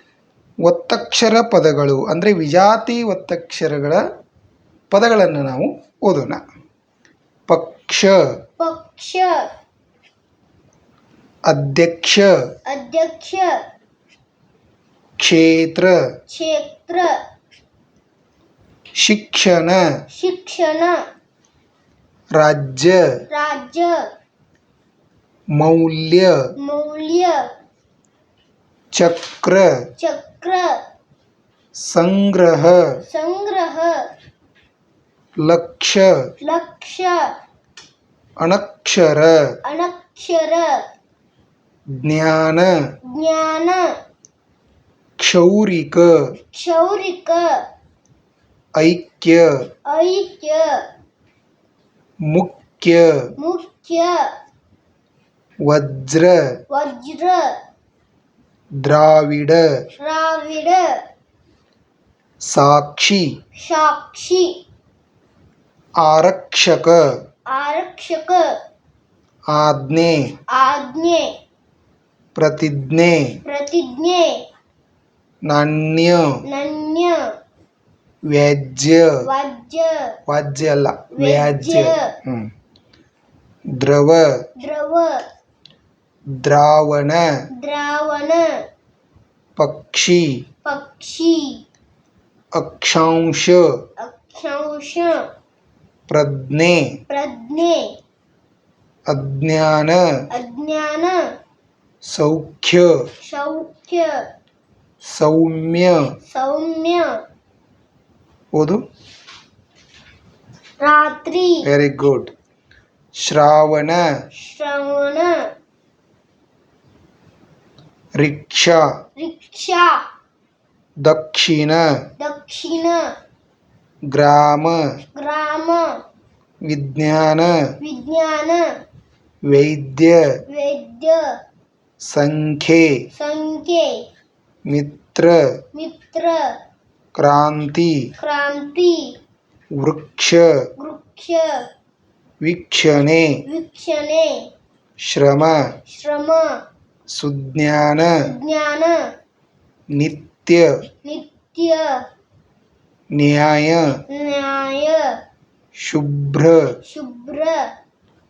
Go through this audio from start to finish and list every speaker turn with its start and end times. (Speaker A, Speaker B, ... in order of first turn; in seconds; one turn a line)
Speaker A: 0.7-4.0
Speaker A: 4.9-6.4
Speaker A: 7.5-8.2
Speaker B: 8.6-9.5
Speaker A: 11.5-12.3
Speaker B: 12.7-13.6
Speaker A: 15.2-15.9
Speaker B: 16.3-17.1
Speaker A: 19.0-19.8
Speaker B: 20.1-21.0
Speaker A: 22.3-23.0
Speaker B: 23.3-24.1
Speaker A: 25.6-26.3
Speaker B: 26.6-27.5
Speaker A: 28.9-29.7
Speaker B: 30.0-30.8
Speaker A: 31.9-32.8
Speaker B: 33.1-34.1
Speaker A: 35.4-36.1
Speaker B: 36.4-37.3
Speaker A: 38.4-39.4
Speaker B: 39.6-40.9
Speaker A: 42.0-42.7
Speaker B: 43.1-43.9
Speaker A: 45.2-46.2
Speaker B: 46.5-47.7
Speaker A: 48.8-49.5
Speaker B: 49.9-50.9
Speaker A: 52.3-53.3
Speaker B: 53.4-54.3
Speaker A: 55.7-56.4
Speaker B: 56.7-57.5
Speaker A: 58.8-59.6
Speaker B: 60.0-60.9
Speaker A: 62.5-63.3
Speaker B: 63.6-64.6
Speaker A: 66.0-67.0
Speaker B: 67.5-68.5
Speaker A: 69.5-70.2
Speaker B: 70.5-71.3
Speaker A: 72.3-73.4
Speaker B: 73.5-74.5
Speaker A: 75.5-76.3
Speaker B: 76.5-77.2
Speaker A: 78.3-79.2
Speaker B: 79.2-80.1
Speaker A: 80.3-82.5
Speaker B: 81.2-82.1
Speaker A: 83.8-84.2
Speaker B: 84.6-85.2
Speaker A: 86.3-87.2
Speaker B: 87.6-88.5
Speaker A: 89.6-90.3
Speaker B: 90.7-91.6
Speaker A: 92.6-93.6
Speaker B: 94.0-95.3
Speaker A: 96.1-96.8
Speaker B: 97.1-97.9
Speaker A: 99.1-100.0
Speaker B: 100.3-101.2
Speaker A: 102.1-102.9
Speaker B: 103.2-104.3
Speaker A: 105.1-106.1
Speaker B: 106.3-107.2
Speaker A: 108.5-108.8
Speaker B: 110.8-111.6
Speaker A: 111.6-112.3
Speaker A: 113.2-114.0
Speaker B: 114.3-115.5
Speaker A: 118.2-118.8
Speaker B: 119.2-120.0
Speaker A: 121.0-121.8
Speaker B: 122.2-123.0
Speaker A: 124.1-124.8
Speaker B: 125.2-126.0
Speaker A: 126.7-127.5
Speaker B: 127.8-128.7
Speaker A: 129.5-130.2
Speaker B: 130.5-131.3
Speaker A: 132.1-132.9
Speaker B: 133.1-134.0
Speaker A: 134.7-135.4
Speaker B: 135.7-136.6
Speaker A: 137.2-138.1
Speaker B: 138.2-139.1
Speaker A: 139.8-140.5
Speaker B: 140.8-141.7
Speaker A: 142.4-143.4
Speaker B: 143.5-144.5
Speaker A: 145.0-145.6
Speaker B: 145.9-146.6
Speaker A: 147.2-148.1
Speaker B: 148.2-149.0
Speaker A: 150.0-150.7
Speaker B: 151.0-152.0
Speaker A: 153.2-154.0
Speaker B: 154.1-155.2
Speaker A: 155.8-156.6
Speaker B: 156.8-157.6